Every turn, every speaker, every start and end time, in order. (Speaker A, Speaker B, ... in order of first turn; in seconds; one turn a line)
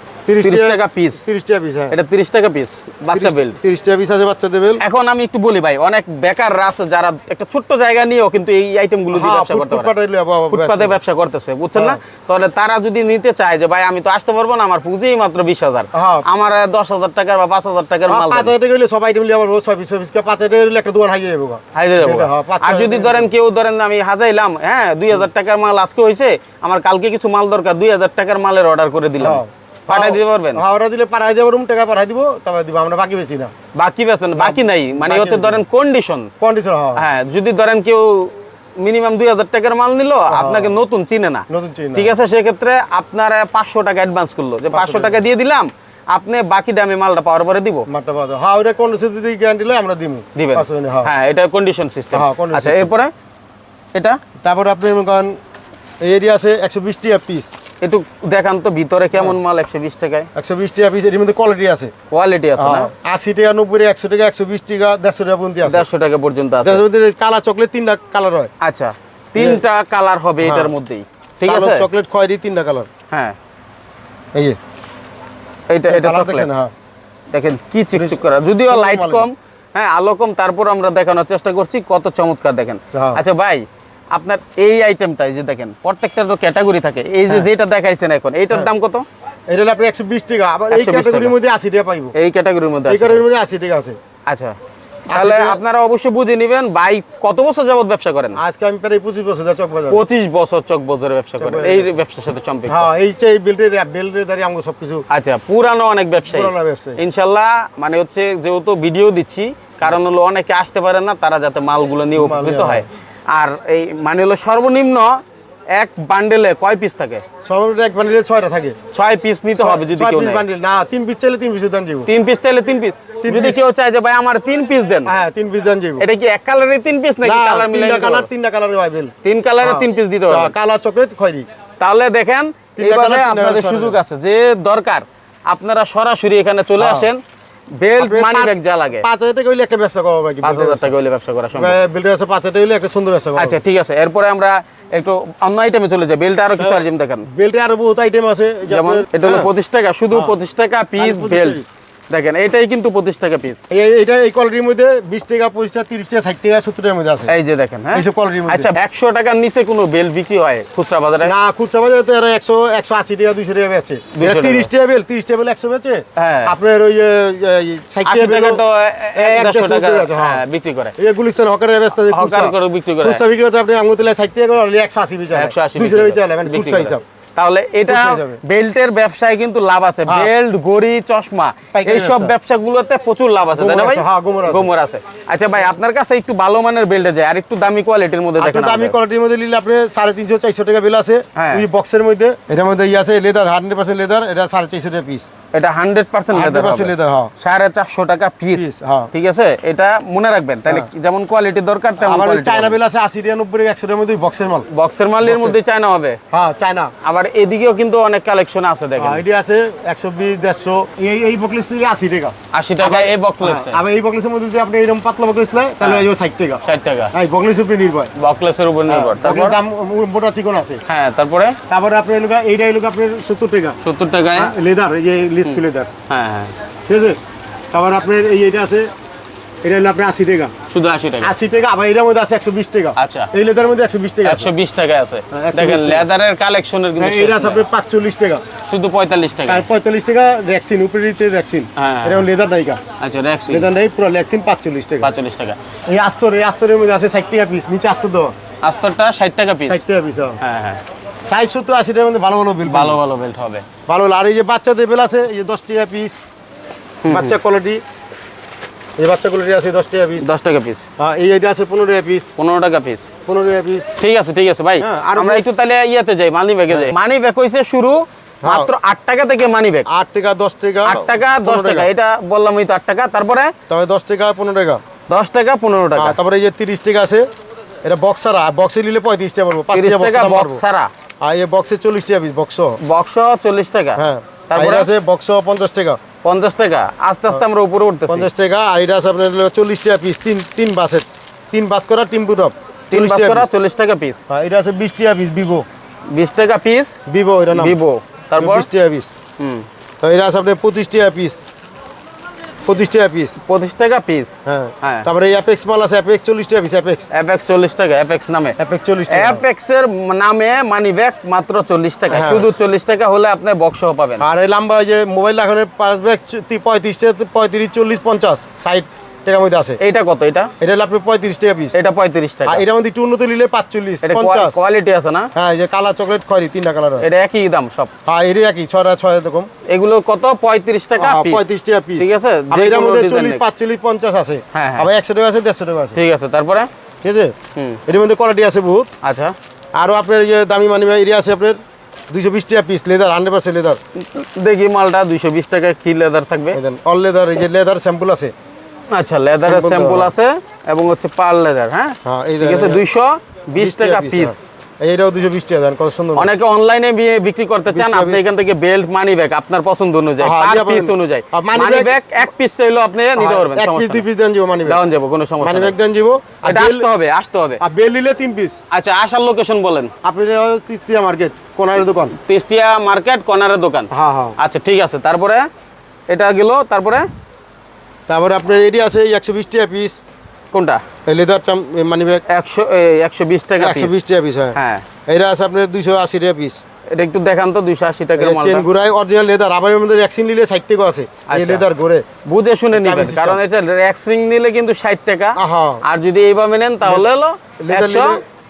Speaker A: 0.3-2.0
Speaker B: 0.4-1.3
Speaker B: 1.9-3.6
Speaker A: 3.1-4.8
Speaker B: 4.8-9.9
Speaker A: 9.1-11.0
Speaker B: 10.5-18.5
Speaker A: 15.9-16.3
Speaker A: 18.1-23.3
Speaker B: 21.7-30.6
Speaker A: 29.2-33.5
Speaker B: 33.7-36.3
Speaker A: 34.4-35.6
Speaker A: 36.4-37.0
Speaker B: 37.0-47.9
Speaker A: 40.3-40.8
Speaker A: 41.5-42.2
Speaker A: 44.7-45.2
Speaker A: 47.9-51.1
Speaker B: 50.4-53.1
Speaker A: 52.1-52.9
Speaker B: 54.0-54.2
Speaker A: 54.4-55.4
Speaker A: 56.0-57.5
Speaker B: 57.8-60.3
Speaker A: 60.4-61.9
Speaker B: 62.1-62.9
Speaker A: 62.6-65.9
Speaker B: 65.6-66.8
Speaker A: 66.6-68.5
Speaker B: 68.6-71.9
Speaker A: 70.4-70.7
Speaker A: 71.5-72.9
Speaker B: 73.1-73.4
Speaker B: 75.7-76.5
Speaker A: 75.9-76.7
Speaker B: 77.3-89.0
Speaker A: 77.9-79.3
Speaker A: 82.9-83.2
Speaker A: 89.5-92.2
Speaker B: 90.7-91.4
Speaker B: 92.2-93.2
Speaker A: 92.9-94.0
Speaker B: 94.3-94.6
Speaker A: 95.1-95.6
Speaker B: 95.1-98.4
Speaker A: 98.3-100.0
Speaker B: 99.9-102.9
Speaker A: 101.4-102.0
Speaker A: 102.7-105.1
Speaker B: 105.1-115.2
Speaker A: 106.2-107.0
Speaker A: 112.2-112.8
Speaker B: 115.7-117.2
Speaker A: 117.4-118.8
Speaker B: 118.9-120.4
Speaker A: 119.6-122.1
Speaker B: 122.1-125.1
Speaker A: 123.2-123.6
Speaker A: 125.0-126.0
Speaker B: 126.0-128.3
Speaker A: 127.2-131.5
Speaker B: 129.2-130.6
Speaker B: 131.8-137.2
Speaker A: 132.8-134.0
Speaker A: 136.8-137.1
Speaker B: 137.8-139.1
Speaker A: 138.0-140.9
Speaker B: 140.4-141.8
Speaker A: 141.6-143.6
Speaker B: 143.4-147.3
Speaker A: 146.6-149.5
Speaker B: 148.7-153.7
Speaker A: 151.0-151.7
Speaker A: 153.7-157.3
Speaker B: 157.3-161.3
Speaker A: 157.9-158.7
Speaker A: 161.2-168.6
Speaker B: 164.1-164.7
Speaker B: 166.2-166.5
Speaker B: 168.1-170.9
Speaker A: 169.2-170.4
Speaker A: 171.0-177.0
Speaker B: 172.1-173.2
Speaker B: 175.3-189.0
Speaker A: 177.9-178.4
Speaker A: 181.7-182.3
Speaker A: 183.5-184.7
Speaker A: 188.4-195.3
Speaker B: 191.3-191.7
Speaker B: 195.5-202.8
Speaker A: 196.3-197.3
Speaker A: 198.5-199.1
Speaker A: 202.0-204.7
Speaker B: 204.7-206.2
Speaker A: 205.2-205.6
Speaker A: 206.3-206.9
Speaker B: 207.0-209.2
Speaker A: 209.0-218.1
Speaker B: 212.5-213.8
Speaker B: 215.8-216.1
Speaker B: 216.7-217.1
Speaker B: 218.2-219.6
Speaker A: 218.9-220.8
Speaker B: 220.9-221.6
Speaker A: 221.7-223.8
Speaker B: 223.8-224.5
Speaker A: 224.4-225.9
Speaker B: 225.4-226.6
Speaker A: 226.9-227.2
Speaker A: 227.7-228.9
Speaker A: 229.6-230.5
Speaker B: 230.7-231.3
Speaker A: 231.2-234.5
Speaker B: 233.0-233.3
Speaker B: 234.2-237.7
Speaker A: 235.3-236.1
Speaker A: 237.0-238.4
Speaker B: 238.7-239.7
Speaker A: 239.5-242.8
Speaker B: 241.8-242.3
Speaker B: 243.0-243.7
Speaker A: 243.5-245.1
Speaker B: 245.0-245.6
Speaker A: 245.9-248.3
Speaker B: 248.6-249.8
Speaker A: 249.7-250.4
Speaker B: 250.4-250.8
Speaker A: 251.3-253.0
Speaker B: 252.7-253.7
Speaker A: 253.9-256.2
Speaker B: 257.0-257.4
Speaker A: 257.1-257.8
Speaker A: 259.0-260.3
Speaker B: 260.2-260.9
Speaker A: 261.0-262.3
Speaker B: 262.4-263.1
Speaker A: 263.3-263.9
Speaker B: 264.0-269.9
Speaker A: 264.8-265.4
Speaker A: 268.4-268.7
Speaker A: 269.9-271.9
Speaker B: 270.8-273.6
Speaker A: 273.7-274.8
Speaker B: 275.1-276.2
Speaker A: 276.0-277.2
Speaker A: 277.9-280.6
Speaker B: 279.7-280.9
Speaker A: 281.2-282.8
Speaker B: 282.8-284.9
Speaker A: 284.0-286.0
Speaker B: 286.2-288.3
Speaker A: 288.1-293.5
Speaker B: 292.9-294.2
Speaker A: 294.3-295.7
Speaker B: 296.1-297.0
Speaker A: 297.1-297.8
Speaker B: 297.5-298.7
Speaker A: 298.4-299.1
Speaker B: 299.4-299.7
Speaker A: 300.0-301.4
Speaker A: 302.7-303.4
Speaker B: 303.4-305.1
Speaker A: 304.5-307.1
Speaker B: 307.1-308.6
Speaker A: 308.6-309.4
Speaker B: 309.1-314.3
Speaker A: 312.1-312.5
Speaker A: 314.2-319.8
Speaker B: 319.8-320.5
Speaker A: 320.6-321.8
Speaker B: 321.7-322.6
Speaker A: 322.5-324.6
Speaker B: 324.0-325.3
Speaker A: 325.4-327.1
Speaker B: 327.0-327.9
Speaker A: 328.1-329.5
Speaker B: 329.7-333.4
Speaker A: 331.0-336.0
Speaker B: 334.5-334.9
Speaker B: 335.9-336.7
Speaker A: 337.0-337.4
Speaker B: 337.6-337.8
Speaker A: 337.9-338.9
Speaker B: 339.0-339.4
Speaker A: 339.8-341.6
Speaker A: 342.1-343.8
Speaker B: 343.9-346.6
Speaker A: 346.5-348.3
Speaker B: 348.9-354.5
Speaker A: 349.4-350.1
Speaker A: 352.1-352.8
Speaker A: 353.6-356.3
Speaker B: 356.2-364.1
Speaker A: 357.7-358.2
Speaker A: 360.2-361.9
Speaker A: 363.2-364.8
Speaker B: 364.7-365.8
Speaker A: 365.4-366.9
Speaker B: 366.4-367.6
Speaker A: 367.6-368.6
Speaker B: 368.7-369.9
Speaker A: 370.0-372.1
Speaker B: 372.2-375.5
Speaker A: 373.9-374.4
Speaker B: 376.1-377.1
Speaker A: 378.1-380.0
Speaker B: 380.5-380.8
Speaker A: 381.1-382.2
Speaker B: 382.3-384.0
Speaker A: 383.6-386.6
Speaker B: 384.5-384.9
Speaker B: 386.9-388.7
Speaker A: 388.2-392.1
Speaker B: 391.3-391.6
Speaker B: 392.3-398.2
Speaker A: 392.7-393.4
Speaker A: 395.4-395.8
Speaker A: 397.6-398.2